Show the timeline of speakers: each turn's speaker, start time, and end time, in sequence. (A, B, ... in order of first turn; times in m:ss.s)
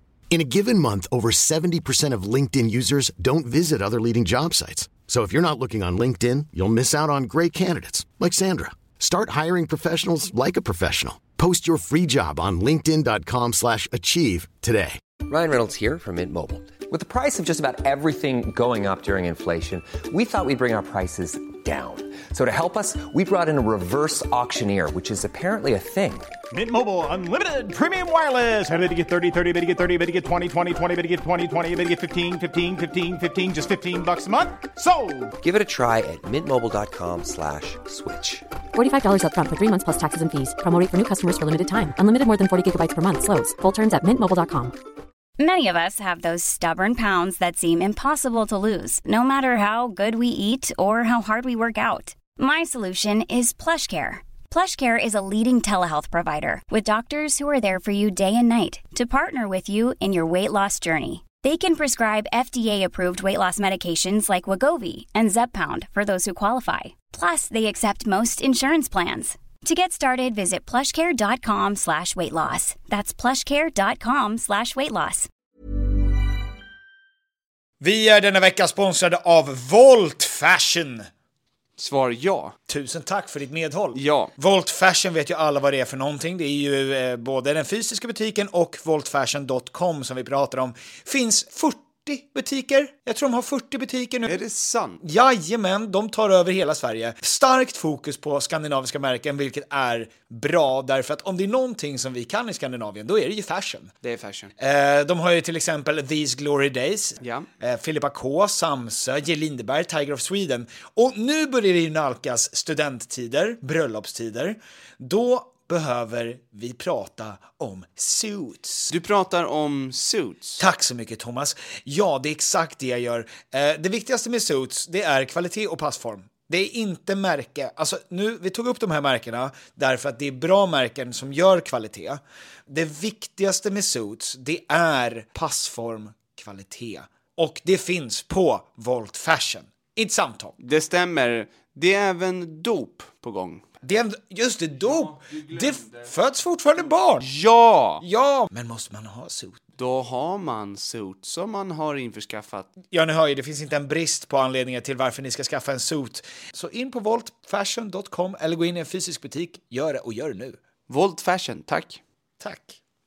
0:00.3-0:15.0 A
0:15.3-0:26.3 B
0:26.5-0:35.3 C
0:35.4-0:38.5 B
0:38.7-0:44.8 D
0:45.4-1:15.3 E
1:17.8-1:21.1 F
1:21.8-1:22.6 G
1:22.7-1:34.4 F
1:23.9-1:24.3 G
1:34.3-1:35.0 G
1:35.0-1:43.9 F
1:44.0-1:44.5 G
1:44.6-1:58.9 F
1:47.2-1:47.5 G
1:58.9-2:00.6 G
2:00.6-2:20.6 F
2:20.6-2:23.7 G
2:23.8-2:27.3 F
2:27.2-2:28.0 G
2:28.0-2:29.6 F
2:29.8-2:32.7 G
2:32.9-2:40.6 F
2:40.9-2:42.0 G
2:42.4-2:42.8 F